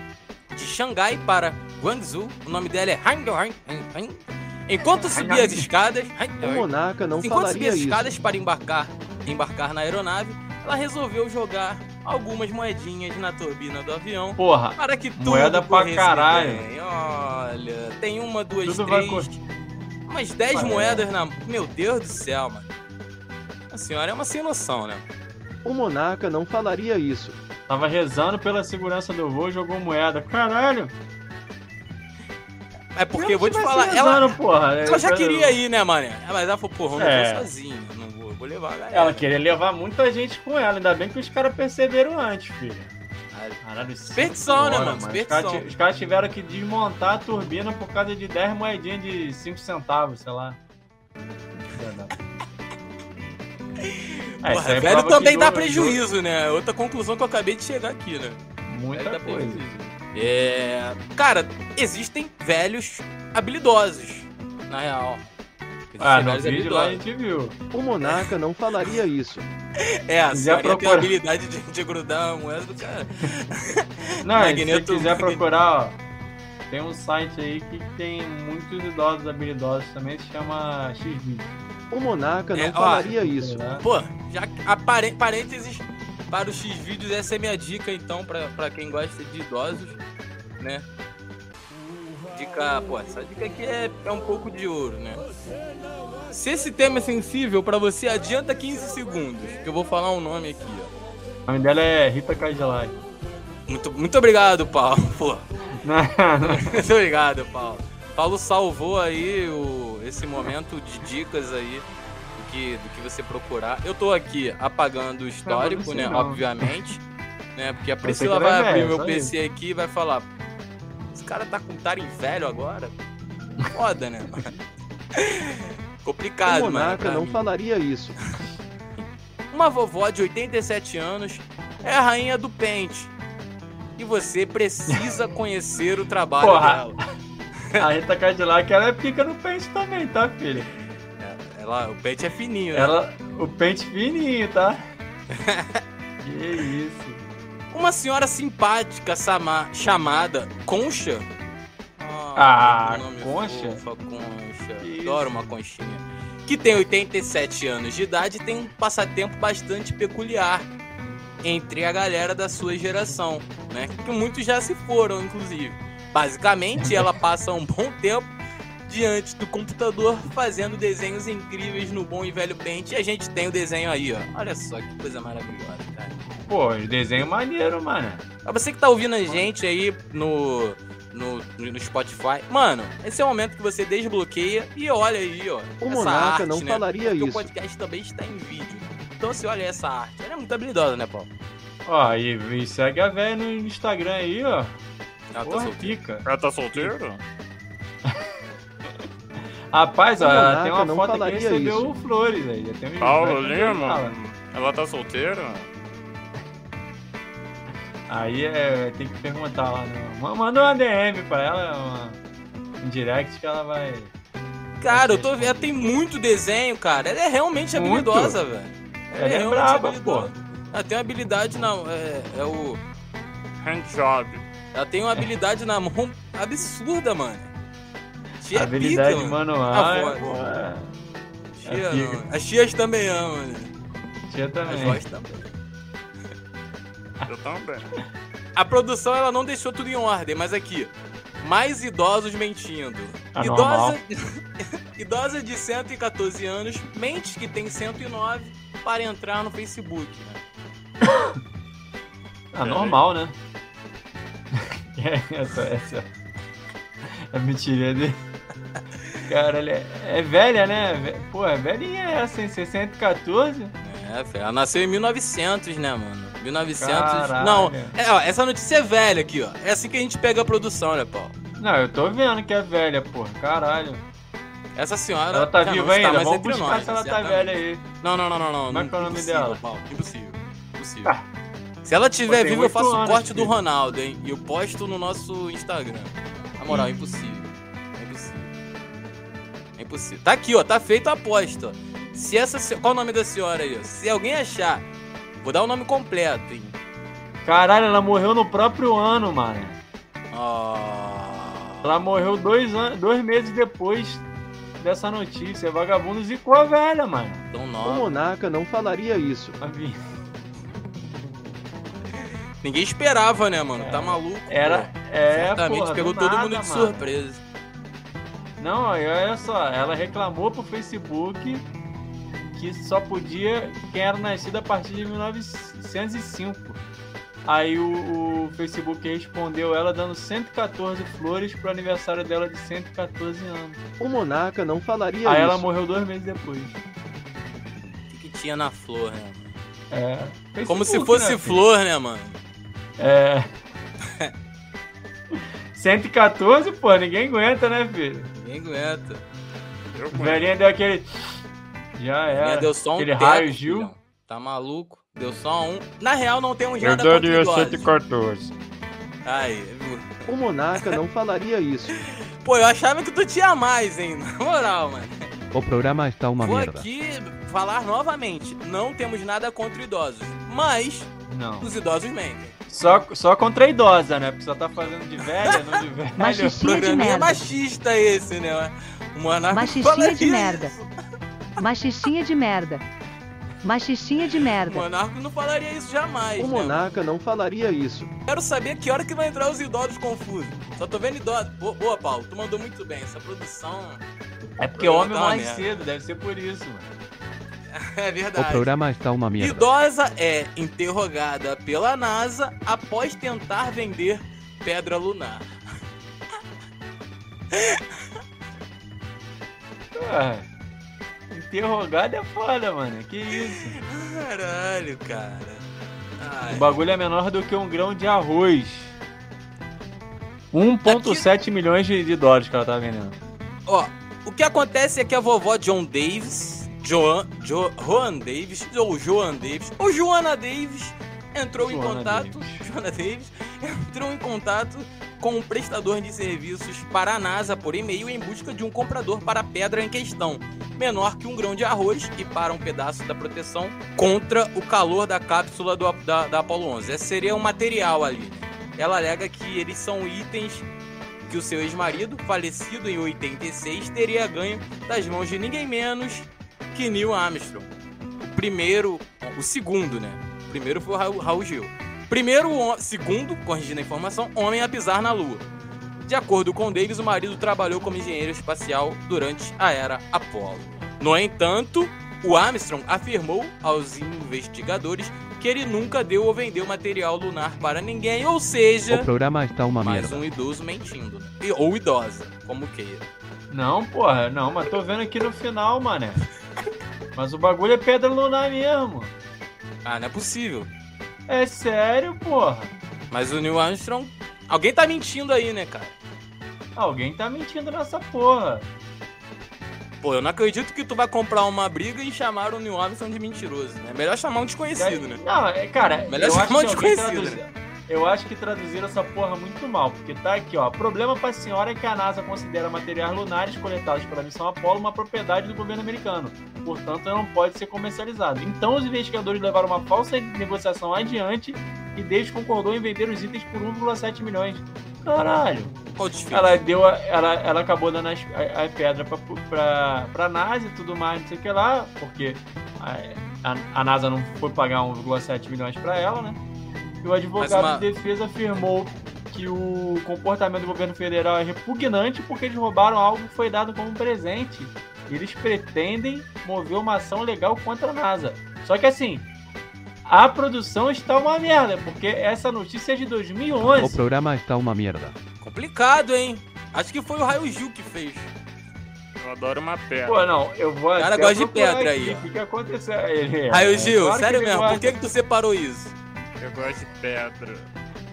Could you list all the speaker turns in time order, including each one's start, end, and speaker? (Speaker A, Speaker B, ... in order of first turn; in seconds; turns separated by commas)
Speaker A: 0.5-6.7, Speaker B: 4.8-5.7, Speaker C: 6.4-8.2, Speaker A: 7.2-19.4, Speaker B: 14.4-16.6, Speaker B: 18.6-19.3, Speaker A: 20.1-22.7, Speaker B: 20.5-21.1, Speaker A: 23.7-25.1, Speaker C: 25.6-27.4, Speaker B: 27.7-30.9, Speaker A: 33.0-39.3, Speaker B: 33.1-35.6, Speaker B: 37.0-37.5, Speaker B: 38.9-42.9, Speaker A: 43.3-45.7, Speaker B: 43.6-50.6, Speaker B: 51.7-52.1, Speaker A: 53.8-58.4, Speaker B: 54.4-56.0, Speaker B: 58.7-59.7, Speaker A: 58.9-65.3, Speaker A: 65.9-67.0, Speaker B: 66.0-67.6, Speaker C: 67.7-69.5, Speaker A: 69.8-75.4, Speaker B: 70.3-71.1, Speaker B: 74.2-76.0, Speaker B: 76.7-81.6, Speaker C: 81.9-83.6, Speaker A: 82.6-83.1, Speaker B: 82.8-83.8, Speaker A: 83.8-90.0, Speaker A: 90.6-90.9, Speaker A: 92.3-95.2, Speaker A: 96.3-100.9, Speaker B: 101.5-103.0, Speaker A: 103.7-105.5, Speaker B: 105.8-106.7, Speaker A: 106.4-111.9, Speaker A: 112.4-117.0, Speaker B: 115.5-116.4, Speaker A: 117.6-120.3, Speaker B: 118.0-119.3, Speaker A: 121.1-123.0, Speaker A: 123.7-124.5, Speaker A: 125.1-127.5, Speaker C: 126.5-128.2, Speaker A: 129.5-133.1, Speaker A: 134.0-137.0, Speaker B: 136.4-137.0, Speaker B: 137.8-140.7, Speaker A: 141.2-142.9, Speaker B: 142.7-144.8, Speaker A: 145.3-145.8, Speaker B: 146.2-147.2, Speaker A: 147.7-151.3, Speaker A: 152.0-160.7, Speaker B: 152.4-153.8, Speaker B: 154.8-155.5, Speaker A: 161.4-168.3, Speaker B: 166.8-167.1, Speaker A: 168.9-176.2, Speaker B: 176.5-178.2, Speaker A: 178.4-191.3, Speaker C: 185.8-187.5, Speaker B: 191.9-194.8, Speaker A: 195.3-196.0, Speaker B: 195.4-196.2, Speaker D: 196.2-197.2, Speaker B: 199.7-204.1, Speaker C: 200.2-201.9, Speaker D: 203.0-205.7, Speaker B: 208.1-212.2, Speaker B: 212.8-214.1, Speaker A: 214.8-222.8, Speaker B: 214.9-215.9, Speaker B: 217.7-218.4, Speaker B: 219.2-220.3, Speaker D: 223.6-224.4, Speaker A: 224.7-227.5, Speaker A: 228.4-230.4, Speaker B: 228.5-230.9, Speaker A: 231.5-233.7, Speaker B: 231.7-232.2, Speaker B: 234.3-235.0, Speaker A: 234.7-235.5, Speaker D: 237.2-237.9, Speaker A: 238.6-250.4, Speaker B: 243.4-244.0, Speaker B: 251.0-251.4, Speaker B: 252.5-253.4, Speaker A: 252.6-253.0, Speaker B: 254.5-256.1, Speaker B: 257.3-258.2, Speaker B: 259.3-263.7, Speaker A: 263.8-271.3, Speaker B: 266.8-267.9, Speaker B: 271.6-274.0, Speaker A: 274.8-281.1, Speaker B: 275.3-277.8, Speaker B: 278.7-279.6, Speaker A: 281.8-288.5, Speaker B: 282.3-283.6, Speaker B: 286.7-287.2, Speaker A: 289.8-294.9, Speaker A: 295.4-296.8, Speaker B: 297.4-299.8, Speaker A: 300.3-301.9, Speaker B: 301.8-304.2, Speaker B: 304.8-307.4, Speaker A: 307.5-308.2, Speaker C: 307.8-309.6, Speaker B: 309.6-310.0, Speaker A: 312.6-317.4, Speaker B: 313.8-317.1, Speaker B: 318.6-321.7, Speaker B: 322.5-326.8, Speaker B: 327.5-333.8, Speaker C: 334.0-335.6, Speaker B: 335.2-336.8, Speaker A: 338.1-339.5, Speaker B: 339.9-341.6, Speaker A: 340.7-342.4, Speaker B: 343.0-343.5, Speaker B: 345.7-348.3, Speaker A: 348.4-349.2, Speaker D: 349.9-350.5, Speaker B: 350.1-351.1, Speaker B: 351.9-353.9, Speaker A: 352.3-357.9, Speaker D: 356.8-358.5, Speaker A: 359.2-360.1, Speaker C: 360.3-362.0, Speaker A: 361.9-365.3, Speaker E: 365.5-366.9, Speaker A: 366.4-371.1, Speaker B: 371.3-371.7, Speaker A: 371.6-372.6, Speaker B: 372.7-376.7, Speaker A: 375.4-375.7, Speaker F: 376.2-377.4, Speaker A: 376.6-380.9, Speaker F: 379.5-380.7, Speaker F: 381.6-382.8, Speaker F: 383.6-384.9, Speaker A: 384.5-386.8, Speaker C: 386.4-388.1, Speaker A: 388.3-394.0, Speaker B: 394.6-396.9, Speaker A: 394.8-395.9, Speaker A: 397.7-398.7, Speaker E: 398.4-399.7, Speaker A: 399.4-405.5, Speaker A: 407.5-408.0, Speaker B: 409.9-410.5, Speaker B: 411.3-413.8, Speaker A: 413.3-415.6, Speaker A: 416.2-416.8, Speaker B: 416.5-419.0, Speaker B: 420.5-423.2, Speaker A: 420.9-421.2, Speaker A: 423.7-450.7, Speaker B: 431.6-432.6, Speaker A: 451.3-465.4, Speaker A: 466.0-479.1, Speaker E: 478.9-480.2, Speaker A: 479.8-483.0, Speaker B: 483.5-486.3, Speaker B: 487.1-489.1, Speaker A: 489.8-490.7, Speaker B: 491.3-492.7, Speaker A: 493.1-495.9, Speaker B: 496.8-498.7, Speaker A: 500.0-505.2, Speaker B: 504.8-525.7, Speaker A: 506.1-507.4, Speaker A: 526.0-526.6, Speaker B: 526.3-536.4, Speaker B: 537.0-549.2, Speaker A: 537.4-537.9, Speaker B: 550.0-554.0, Speaker E: 553.6-555.1, Speaker A: 555.4-558.3, Speaker D: 559.2-560.3, Speaker B: 560.0-565.0, Speaker A: 561.0-562.3, Speaker A: 563.5-565.9, Speaker D: 566.4-567.7